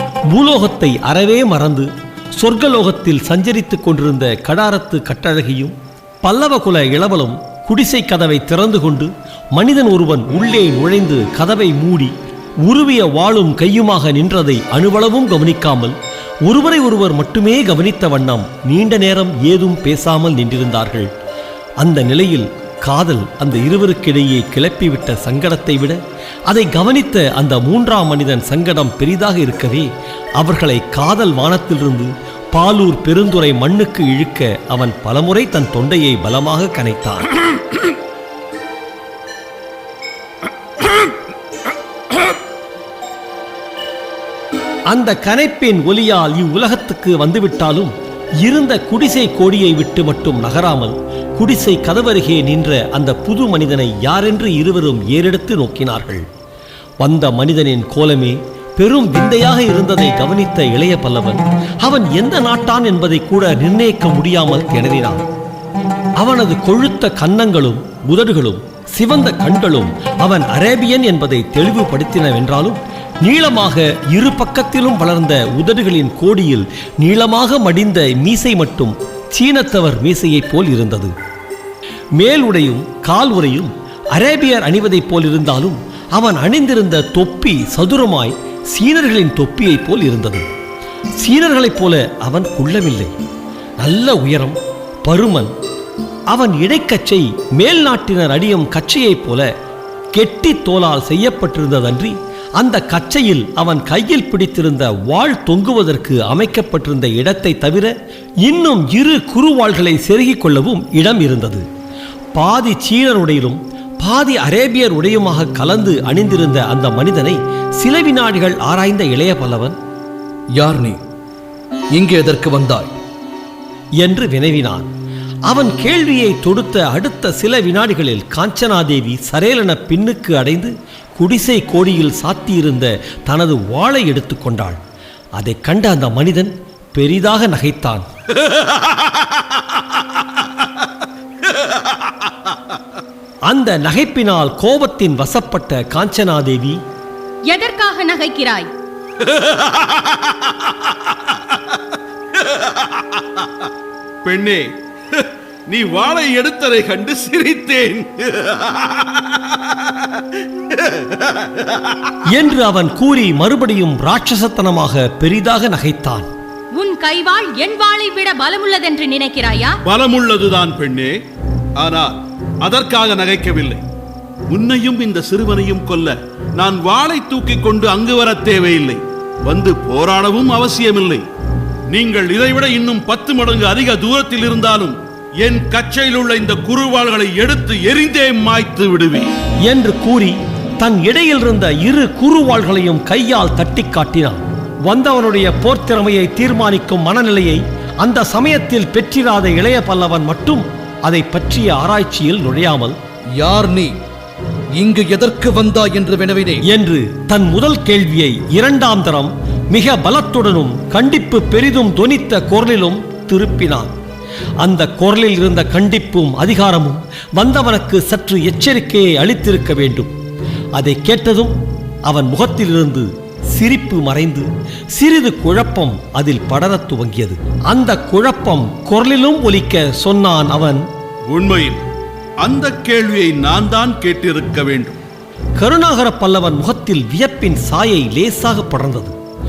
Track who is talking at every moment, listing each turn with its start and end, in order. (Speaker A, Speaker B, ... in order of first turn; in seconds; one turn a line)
Speaker A: 0.3-12.1
Speaker A: 12.7-21.1
Speaker A: 21.8-37.3
Speaker A: 44.9-56.2
Speaker A: 57.0-65.2
Speaker A: 66.2-81.1
Speaker A: 82.2-90.5
Speaker A: 91.2-93.1
Speaker A: 93.8-95.5
Speaker A: 96.3-99.5
Speaker A: 100.1-107.9
Speaker A: 108.4-111.6
Speaker A: 112.3-119.8
Speaker B: 120.5-121.0
Speaker B: 121.9-122.9
Speaker A: 124.0-124.9
Speaker A: 125.5-134.8
Speaker A: 135.4-138.1
Speaker A: 143.5-146.8
Speaker C: 147.5-148.7
Speaker D: 149.2-151.6
Speaker D: 152.4-153.4
Speaker D: 154.2-160.1
Speaker D: 160.7-162.1
Speaker A: 162.2-166.3
Speaker C: 166.7-169.7
Speaker D: 169.8-171.2
Speaker D: 171.8-173.8
Speaker D: 174.5-181.2
Speaker D: 181.9-189.3
Speaker A: 189.6-203.0
Speaker B: 203.3-203.9
Speaker B: 204.8-206.6
Speaker A: 206.6-213.9
Speaker A: 214.6-220.1
Speaker A: 220.8-230.8
Speaker D: 231.3-231.8
Speaker D: 232.4-235.0
Speaker A: 235.6-239.2